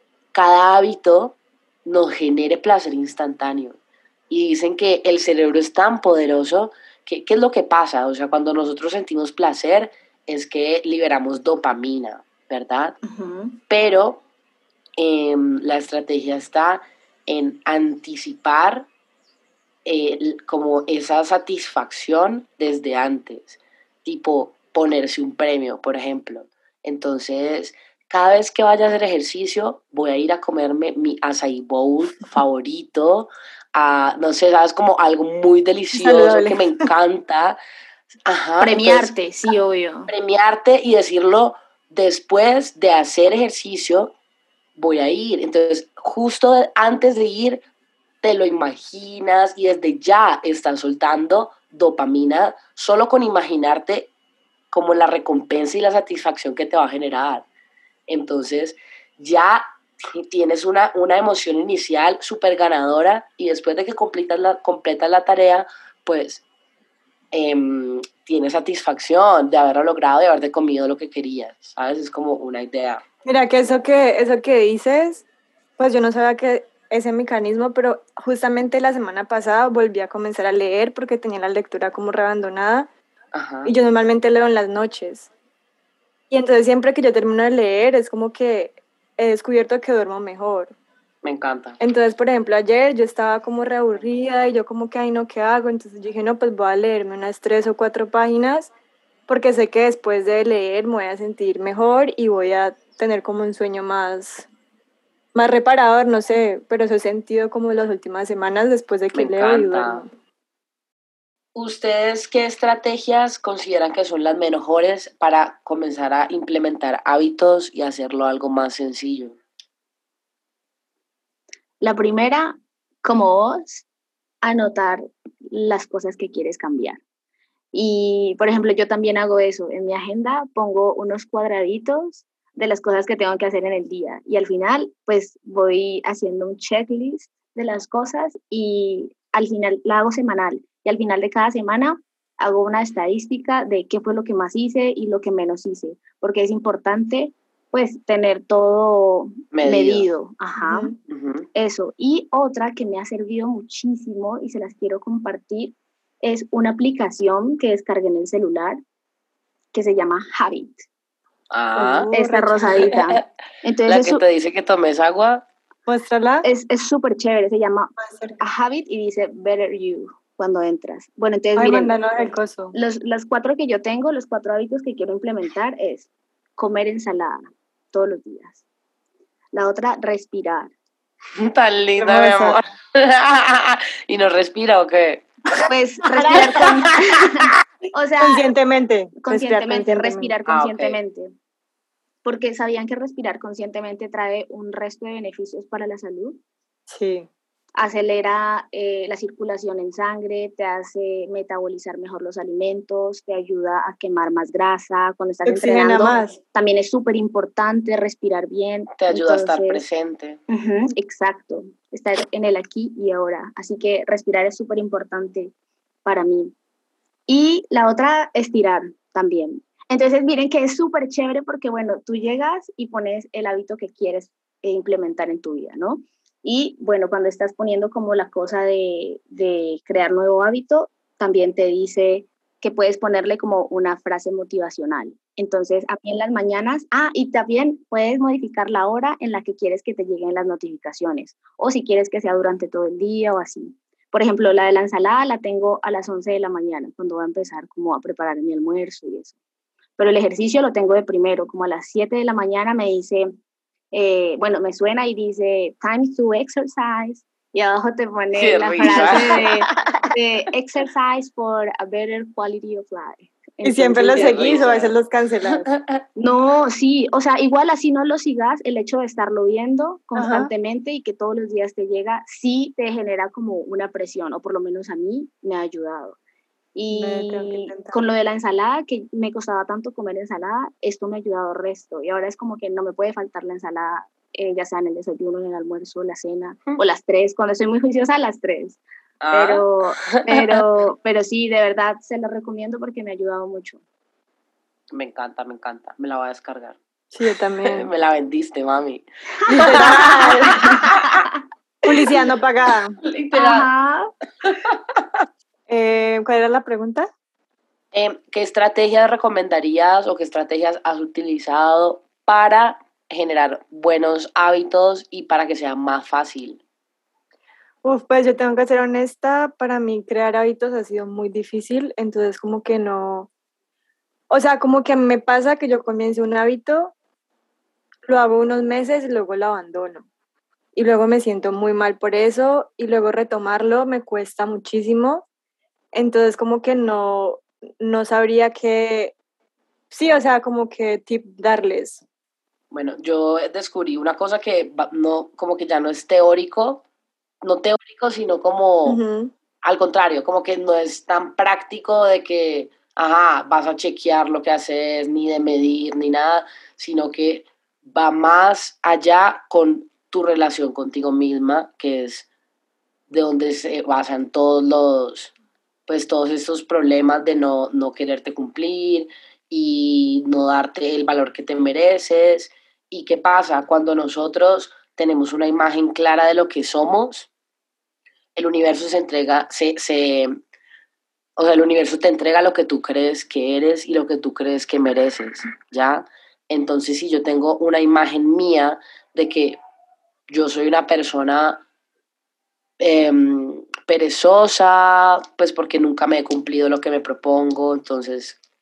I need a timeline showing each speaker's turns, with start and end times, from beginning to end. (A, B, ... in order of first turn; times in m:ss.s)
0:00.3-0:03.8 A
0:04.3-0:13.0 A
0:13.0-0:13.6 B
0:13.7-0:14.2 A
0:15.0-0:18.9 A
0:19.8-0:37.6 A
0:35.9-0:36.9 C
0:38.3-0:39.1 A
0:38.6-0:40.1 B
0:40.1-0:44.1 A
0:44.8-0:47.6 A
0:48.2-0:54.1 A
0:54.7-0:57.5 A
0:58.1-1:06.4 A
1:07.3-1:13.0 A
1:13.2-1:15.2 C
1:15.8-1:22.9 C
1:23.3-1:23.7 A
1:23.6-1:25.3 C
1:26.3-1:30.8 C
1:31.2-1:31.8 A
1:31.8-1:38.7 C
1:39.3-1:44.5 C
1:45.3-1:50.1 C
1:49.1-1:50.1 A
1:51.6-1:59.4 A
2:01.8-2:03.9 B
2:04.4-2:07.0 B
2:07.7-2:30.9 B
2:29.5-2:30.1 A
2:30.6-2:31.0 C
2:31.1-2:31.5 A
2:31.6-2:38.8 B
2:39.7-2:40.9 B
2:41.5-2:42.1 A
2:41.8-2:42.9 C
2:42.1-2:44.2 B
2:42.8-2:43.2 A
2:43.9-2:45.4 A
2:45.9-2:46.5 C
2:46.4-2:52.0 B
2:48.0-2:48.4 C
2:51.6-2:52.8 C
2:52.7-2:57.4 B
2:57.9-2:58.6 B
2:59.5-3:00.7 B
3:01.4-3:05.3 A
3:02.0-3:02.6 C
3:05.7-3:08.5 B
3:06.1-3:06.6 A
3:08.2-3:10.3 C
3:09.2-3:11.3 B
3:10.5-3:11.0 A
3:12.2-3:16.4 B
3:16.9-3:17.3 C
3:17.8-3:29.8 B
3:25.4-3:26.4 C
3:29.0-3:30.4 A
3:30.5-3:35.5 B
3:36.0-3:36.5 B
3:37.3-4:09.4 B
4:10.0-4:13.3 B
4:13.9-4:24.7 B
4:18.3-4:19.8 A
4:18.8-4:19.2 C
4:23.6-4:25.7 C
4:24.1-4:25.0 A
4:25.5-4:26.0 A
4:26.2-4:36.2 B
4:30.2-4:30.5 C
4:36.8-4:48.8 B
4:36.9-4:38.0 C
4:49.2-4:50.6 A
4:49.3-4:53.8 B
4:54.9-4:56.8 A
4:57.1-4:57.9 C
4:57.6-5:01.2 A
4:59.5-5:00.6 C
5:00.6-5:01.2 B
5:01.8-5:03.0 C
5:03.0-5:03.7 A
5:03.3-5:04.1 B
5:04.4-5:05.2 A
5:05.7-5:07.1 C
5:07.9-5:16.6 A
5:17.8-5:23.3 C
5:24.3-5:26.9 C
5:28.1-5:30.1 C
5:30.8-5:35.3 C
5:35.9-5:39.2 C
5:39.9-5:42.0 C
5:42.7-5:46.8 A
5:47.4-5:49.0 A
5:48.8-5:49.3 C
5:49.6-6:02.3 A
6:03.1-6:05.3 A
6:05.9-6:17.3 A
6:18.4-6:20.3 A
6:21.4-6:29.6 A
6:30.3-6:31.6 A
6:32.8-6:38.4 A